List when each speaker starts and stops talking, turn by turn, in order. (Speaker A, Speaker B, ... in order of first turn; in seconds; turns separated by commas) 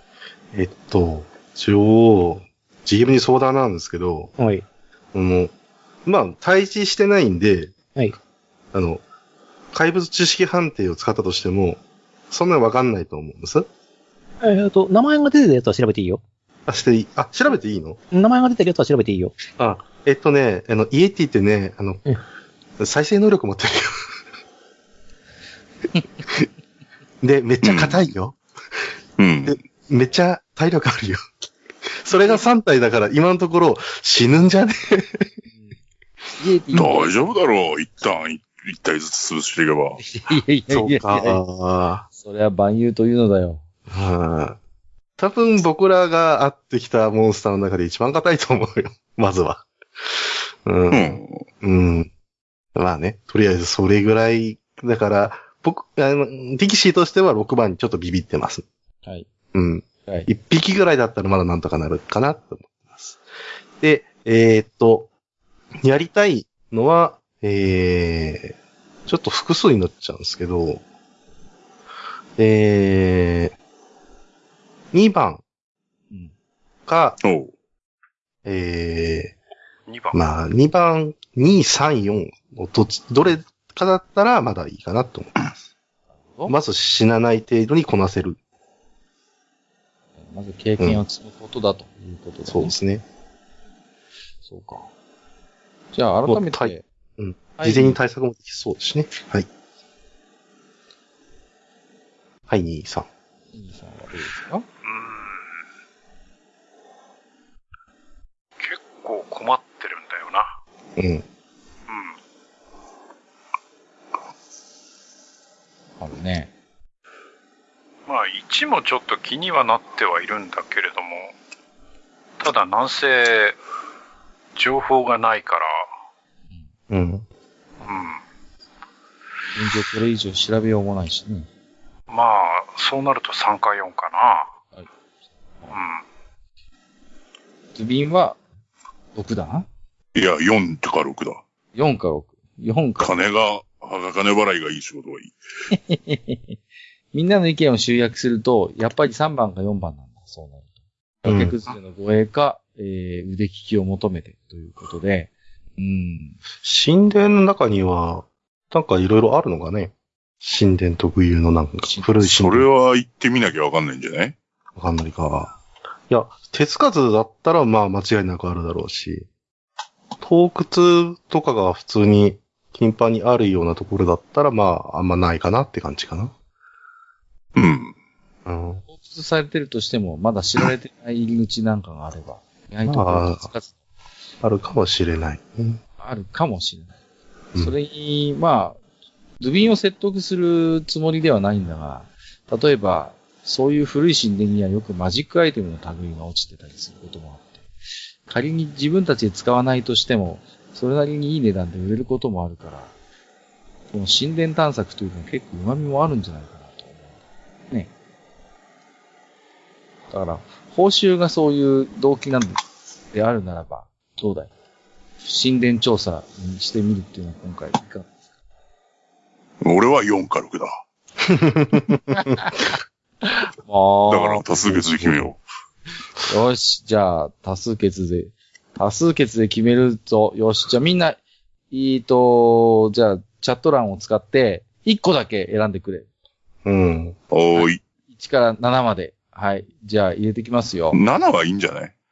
Speaker A: 0.5-4.3, Speaker B: 4.4-4.6, Speaker A: 5.1-5.5, Speaker A: 6.1-7.7, Speaker A: 8.7-9.0, Speaker A: 9.7-13.7, Speaker B: 14.4-16.2, Speaker A: 16.7-18.0, Speaker B: 18.1-19.4, Speaker A: 19.6-22.0, Speaker A: 22.8-23.9, Speaker A: 27.2-28.4, Speaker C: 27.6-28.1, Speaker C: 29.2-29.6, Speaker A: 29.5-31.2, Speaker A: 32.0-35.2, Speaker D: 36.4-37.1, Speaker C: 36.7-40.0, Speaker D: 40.0-41.4, Speaker A: 40.7-42.0, Speaker D: 42.1-43.6, Speaker A: 43.9-44.6, Speaker A: 45.2-49.7, Speaker A: 50.6-52.1, Speaker C: 50.9-51.5, Speaker A: 52.8-58.6, Speaker A: 59.5-63.2, Speaker A: 63.8-65.1, Speaker A: 65.8-68.5, Speaker A: 69.1-70.8, Speaker A: 72.4-73.5, Speaker A: 74.9-75.4, Speaker A: 76.9-77.2, Speaker C: 77.2-77.5, Speaker A: 78.5-79.3, Speaker E: 79.9-80.2, Speaker A: 80.1-85.3, Speaker A: 86.5-88.4, Speaker D: 90.3-92.8, Speaker A: 92.5-93.0, Speaker D: 94.5-94.9, Speaker D: 95.9-96.8, Speaker A: 96.3-99.5, Speaker D: 97.6-98.0, Speaker A: 102.5-103.1, Speaker D: 103.5-104.7, Speaker E: 104.8-105.4, Speaker E: 108.6-110.5, Speaker A: 111.0-111.2, Speaker E: 111.9-112.2, Speaker D: 116.0-116.5, Speaker E: 118.1-121.3, Speaker E: 122.4-123.6, Speaker E: 124.6-125.7, Speaker A: 126.9-127.2, Speaker E: 127.9-128.2, Speaker D: 129.6-131.5, Speaker E: 132.1-134.5, Speaker E: 135.7-136.0, Speaker D: 137.8-138.4, Speaker D: 139.2-139.7, Speaker C: 140.2-141.4, Speaker D: 141.8-143.1, Speaker C: 143.0-145.3, Speaker D: 145.7-146.6, Speaker D: 147.1-150.7, Speaker D: 151.2-156.4, Speaker A: 151.2-151.6, Speaker A: 156.6-162.7, Speaker D: 161.9-162.1, Speaker C: 162.3-164.3, Speaker A: 164.8-165.6, Speaker A: 166.1-169.3, Speaker A: 170.2-176.3, Speaker C: 177.6-177.9, Speaker A: 178.5-178.8, Speaker D: 178.9-183.7, Speaker A: 182.9-183.5, Speaker A: 184.4-185.8, Speaker D: 186.0-186.9, Speaker D: 187.6-188.8, Speaker D: 189.4-197.6, Speaker D: 198.3-202.9, Speaker D: 203.9-207.1, Speaker D: 210.1-212.6, Speaker D: 213.1-214.5, Speaker D: 215.2-218.1, Speaker C: 219.6-220.8, Speaker A: 221.3-222.0, Speaker D: 222.1-222.7, Speaker D: 223.2-225.3, Speaker C: 224.1-225.4, Speaker D: 226.2-231.2, Speaker D: 231.7-236.1, Speaker A: 236.7-237.2, Speaker C: 237.3-237.8, Speaker D: 237.6-241.0, Speaker C: 240.9-241.9